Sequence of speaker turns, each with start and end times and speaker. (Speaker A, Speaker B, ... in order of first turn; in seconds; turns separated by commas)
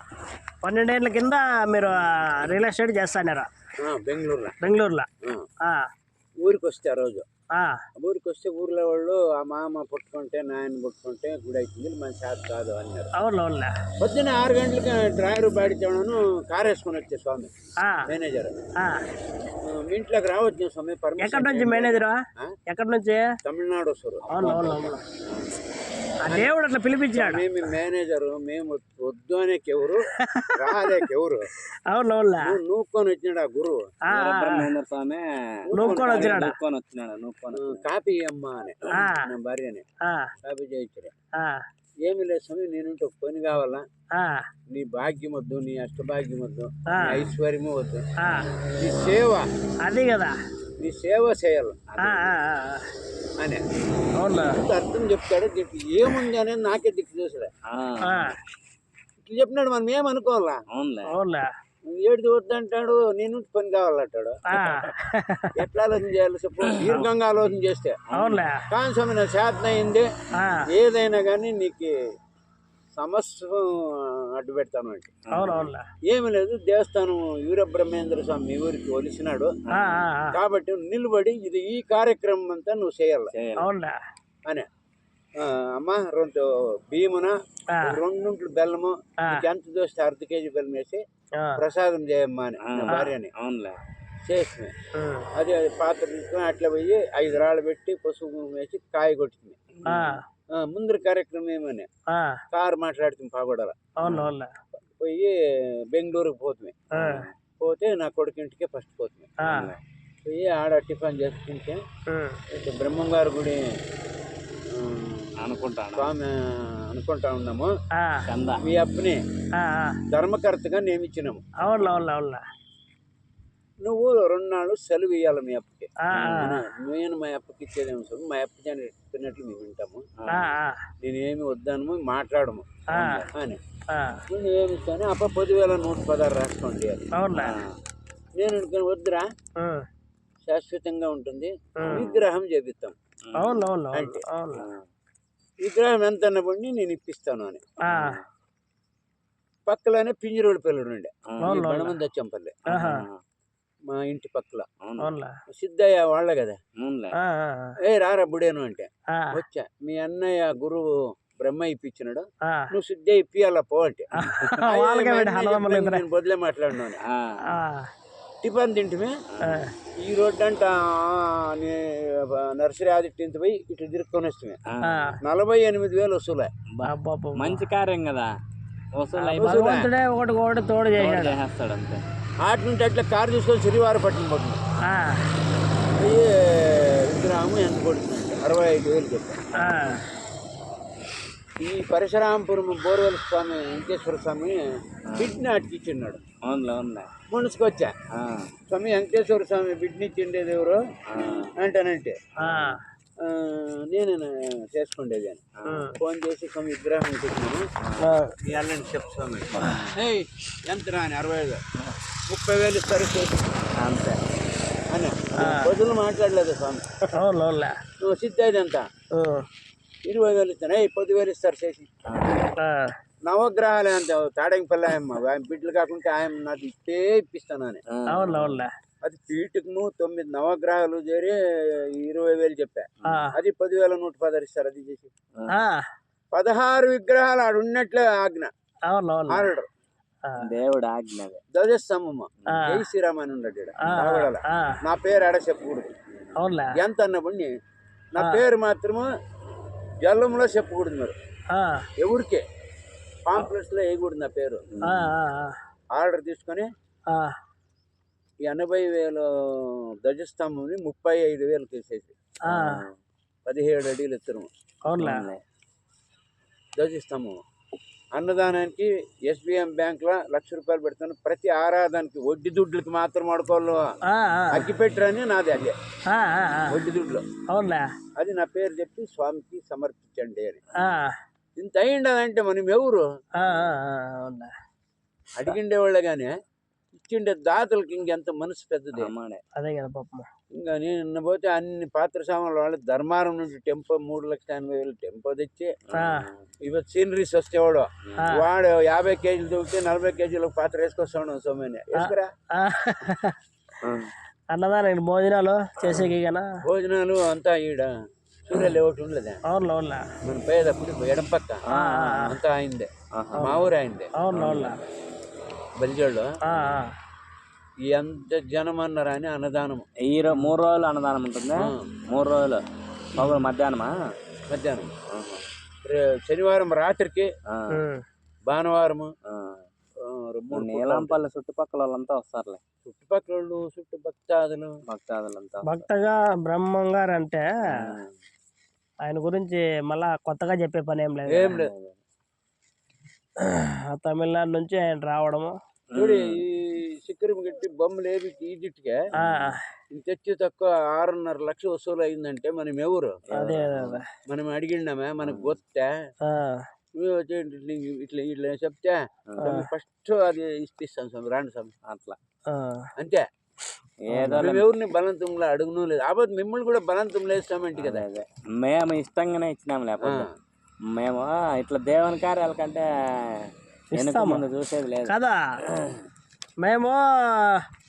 Speaker A: 0.6-3.5, Speaker B: 3.8-4.6, Speaker A: 4.6-5.1, Speaker B: 5.2-5.5, Speaker B: 6.4-7.2, Speaker A: 7.5-7.8, Speaker B: 8.0-13.1, Speaker A: 13.2-13.7, Speaker B: 14.0-17.5, Speaker B: 18.1-18.5, Speaker B: 19.6-22.6, Speaker A: 21.2-22.1, Speaker A: 22.7-23.3, Speaker B: 23.4-25.0, Speaker A: 24.3-25.0, Speaker A: 26.2-27.5, Speaker B: 26.3-26.5, Speaker B: 27.1-31.5, Speaker A: 30.2-31.1, Speaker A: 31.9-32.6, Speaker B: 32.4-33.8, Speaker A: 34.1-34.7, Speaker C: 34.1-35.2, Speaker B: 35.7-36.5, Speaker A: 35.8-36.5, Speaker C: 35.8-37.9, Speaker B: 37.5-39.8, Speaker A: 38.9-39.3, Speaker A: 40.0-40.3, Speaker B: 40.4-41.1, Speaker A: 41.4-41.6, Speaker B: 42.0-43.9, Speaker A: 44.2-44.5, Speaker B: 44.7-48.0, Speaker A: 46.9-47.3, Speaker A: 48.2-48.5, Speaker B: 48.8-49.5, Speaker A: 49.9-50.3, Speaker B: 50.8-51.8, Speaker C: 52.0-52.2, Speaker A: 52.0-52.9, Speaker A: 54.2-54.6, Speaker B: 54.3-57.5, Speaker C: 57.7-58.3, Speaker A: 58.0-58.4, Speaker B: 59.2-60.6, Speaker C: 60.7-61.2, Speaker A: 61.1-61.5, Speaker B: 61.9-64.4, Speaker A: 64.5-65.7, Speaker B: 65.6-68.1, Speaker C: 66.7-67.0, Speaker C: 68.1-68.5, Speaker A: 68.1-68.7, Speaker B: 68.7-70.1, Speaker A: 70.4-70.7, Speaker B: 70.7-71.9, Speaker B: 73.0-75.1, Speaker C: 75.3-75.7, Speaker A: 75.3-75.8, Speaker B: 76.1-79.5, Speaker A: 79.7-80.4, Speaker B: 80.3-83.3, Speaker C: 83.3-83.7, Speaker A: 83.6-84.0, Speaker B: 85.4-91.0, Speaker A: 87.7-88.0, Speaker A: 91.4-91.7, Speaker B: 91.6-93.3, Speaker C: 92.6-93.8, Speaker B: 94.2-94.7, Speaker A: 95.0-95.3, Speaker B: 95.3-99.6, Speaker C: 99.8-100.2, Speaker A: 99.9-100.2, Speaker B: 100.5-101.9, Speaker A: 102.1-102.4, Speaker B: 102.5-103.9, Speaker A: 104.0-104.5, Speaker C: 104.0-104.3, Speaker B: 105.0-106.9, Speaker A: 106.9-107.3, Speaker C: 107.0-107.3, Speaker B: 107.6-109.4, Speaker A: 109.4-109.7, Speaker C: 109.5-109.8, Speaker B: 110.2-111.8, Speaker A: 112.1-112.4, Speaker B: 112.5-113.6, Speaker B: 114.7-117.7, Speaker C: 115.4-116.1, Speaker A: 118.0-118.3, Speaker C: 118.2-118.6, Speaker B: 118.6-119.2, Speaker A: 119.6-120.0, Speaker B: 120.1-121.5, Speaker A: 121.6-122.4, Speaker B: 123.8-130.1, Speaker A: 126.1-126.6, Speaker C: 126.1-126.5, Speaker C: 130.2-130.6, Speaker A: 130.3-130.8, Speaker B: 131.0-133.6, Speaker A: 132.9-133.3, Speaker C: 132.9-133.3, Speaker A: 133.9-134.2, Speaker B: 134.3-137.1, Speaker A: 137.2-137.5, Speaker C: 137.3-137.8, Speaker B: 138.4-139.3, Speaker A: 139.6-139.9, Speaker B: 140.4-143.0, Speaker A: 141.8-142.1, Speaker C: 143.3-143.7, Speaker A: 143.4-144.7, Speaker B: 143.9-144.2, Speaker C: 144.6-144.9, Speaker B: 145.6-147.6, Speaker A: 147.8-148.2, Speaker C: 147.9-148.2, Speaker B: 149.7-152.7, Speaker C: 151.3-151.6, Speaker A: 151.4-152.0, Speaker A: 152.7-153.0, Speaker C: 152.7-153.2, Speaker B: 153.9-154.7, Speaker C: 154.8-155.1, Speaker A: 155.0-155.3, Speaker B: 155.5-156.6, Speaker C: 156.8-157.1, Speaker A: 157.2-157.7, Speaker B: 157.8-167.1, Speaker A: 164.2-166.0, Speaker C: 167.0-167.3, Speaker A: 167.5-167.9, Speaker B: 168.4-169.1, Speaker C: 169.4-169.7, Speaker A: 169.4-169.7, Speaker B: 170.0-174.6, Speaker C: 174.8-175.0, Speaker A: 174.8-175.2, Speaker B: 175.2-176.5, Speaker C: 176.7-178.3, Speaker A: 176.8-177.6, Speaker C: 179.0-179.5, Speaker B: 179.2-179.9, Speaker A: 179.3-181.4, Speaker C: 180.9-182.1, Speaker B: 182.4-184.6, Speaker A: 184.9-185.2, Speaker B: 186.0-189.4, Speaker A: 189.6-190.1, Speaker B: 191.6-196.2, Speaker C: 195.1-195.4, Speaker C: 196.4-197.1, Speaker B: 197.3-197.9, Speaker C: 198.2-198.5, Speaker B: 198.7-200.8, Speaker C: 201.1-201.5, Speaker B: 201.4-202.2, Speaker A: 202.4-202.8, Speaker C: 202.5-202.8, Speaker B: 203.2-205.4, Speaker A: 205.7-206.0, Speaker B: 205.9-207.6, Speaker C: 207.8-208.2, Speaker A: 208.0-208.3, Speaker B: 208.4-211.6, Speaker A: 209.6-209.9, Speaker B: 212.3-213.4, Speaker C: 213.8-214.2, Speaker B: 214.9-216.8, Speaker A: 215.4-215.7, Speaker A: 217.2-217.8, Speaker B: 218.0-218.9, Speaker A: 219.2-219.5, Speaker B: 220.1-221.9, Speaker C: 222.1-222.4, Speaker A: 222.6-222.9, Speaker B: 223.3-227.8, Speaker C: 227.9-228.6, Speaker A: 228.1-228.7, Speaker B: 229.0-235.1, Speaker A: 233.0-233.4, Speaker A: 235.5-235.8, Speaker B: 236.3-238.5, Speaker A: 238.9-239.5, Speaker B: 239.3-239.7, Speaker C: 240.4-241.4, Speaker B: 241.5-245.9, Speaker A: 242.5-242.8, Speaker A: 243.8-244.8, Speaker A: 246.4-246.8, Speaker B: 246.8-247.5, Speaker B: 248.1-249.1, Speaker B: 250.0-251.1, Speaker A: 251.5-251.9, Speaker B: 252.0-252.4, Speaker B: 253.3-254.7, Speaker C: 254.8-255.1, Speaker A: 254.8-255.6, Speaker B: 255.9-256.7, Speaker A: 257.1-257.4, Speaker B: 258.4-262.1, Speaker A: 262.5-262.8, Speaker C: 262.5-263.0, Speaker B: 263.5-264.5, Speaker A: 264.9-265.3, Speaker C: 265.0-265.4, Speaker B: 266.8-267.4, Speaker B: 268.1-273.8, Speaker A: 274.1-274.7, Speaker B: 274.5-275.8, Speaker A: 276.1-276.8, Speaker B: 276.7-277.2, Speaker A: 277.5-277.9, Speaker B: 278.2-280.6, Speaker A: 280.8-281.1, Speaker B: 281.6-283.0, Speaker A: 283.4-284.5, Speaker B: 285.4-286.3, Speaker B: 286.9-289.1, Speaker C: 289.0-289.4, Speaker A: 289.6-290.3, Speaker B: 290.6-295.7, Speaker C: 295.9-296.5, Speaker A: 295.9-296.3, Speaker B: 296.6-302.3, Speaker A: 298.2-298.5, Speaker A: 302.0-303.4, Speaker C: 303.8-304.1, Speaker A: 304.5-306.5, Speaker B: 306.6-307.9, Speaker B: 308.5-309.4, Speaker A: 309.5-310.1, Speaker B: 310.2-311.6, Speaker C: 311.7-312.2, Speaker A: 311.7-312.4, Speaker B: 312.2-312.9, Speaker C: 313.2-313.5, Speaker A: 313.4-313.7, Speaker B: 313.4-314.1, Speaker A: 314.2-314.8, Speaker C: 314.3-314.7, Speaker B: 315.8-316.3, Speaker A: 316.5-316.9, Speaker B: 317.9-319.9, Speaker C: 320.0-322.6, Speaker B: 321.6-321.9, Speaker C: 323.2-323.9, Speaker B: 324.5-324.9, Speaker C: 325.1-325.5, Speaker B: 325.8-327.3, Speaker C: 327.5-327.8, Speaker A: 327.7-328.0, Speaker B: 328.5-329.1, Speaker C: 329.3-329.6, Speaker B: 330.0-331.2, Speaker C: 330.5-332.6, Speaker B: 332.8-334.7, Speaker C: 334.9-335.9, Speaker A: 335.6-337.9, Speaker C: 337.7-338.1, Speaker A: 339.1-341.6, Speaker B: 341.3-341.7, Speaker C: 341.5-342.0, Speaker A: 343.4-345.6, Speaker C: 345.9-346.2, Speaker B: 346.0-349.0, Speaker C: 349.2-349.6, Speaker A: 349.2-349.6, Speaker B: 349.9-353.2, Speaker C: 353.3-354.0, Speaker A: 353.4-354.1, Speaker B: 354.3-355.9, Speaker C: 355.2-355.5, Speaker A: 356.3-356.6, Speaker B: 357.0-361.7, Speaker C: 359.3-359.6, Speaker A: 359.4-359.7, Speaker C: 361.9-362.2, Speaker A: 362.5-362.9, Speaker B: 363.0-363.2, Speaker C: 364.1-364.7, Speaker A: 364.1-364.4, Speaker B: 364.3-368.1, Speaker C: 367.8-370.3, Speaker B: 370.0-370.3, Speaker C: 370.9-375.1, Speaker A: 374.0-374.4, Speaker A: 375.1-375.4, Speaker A: 376.6-377.6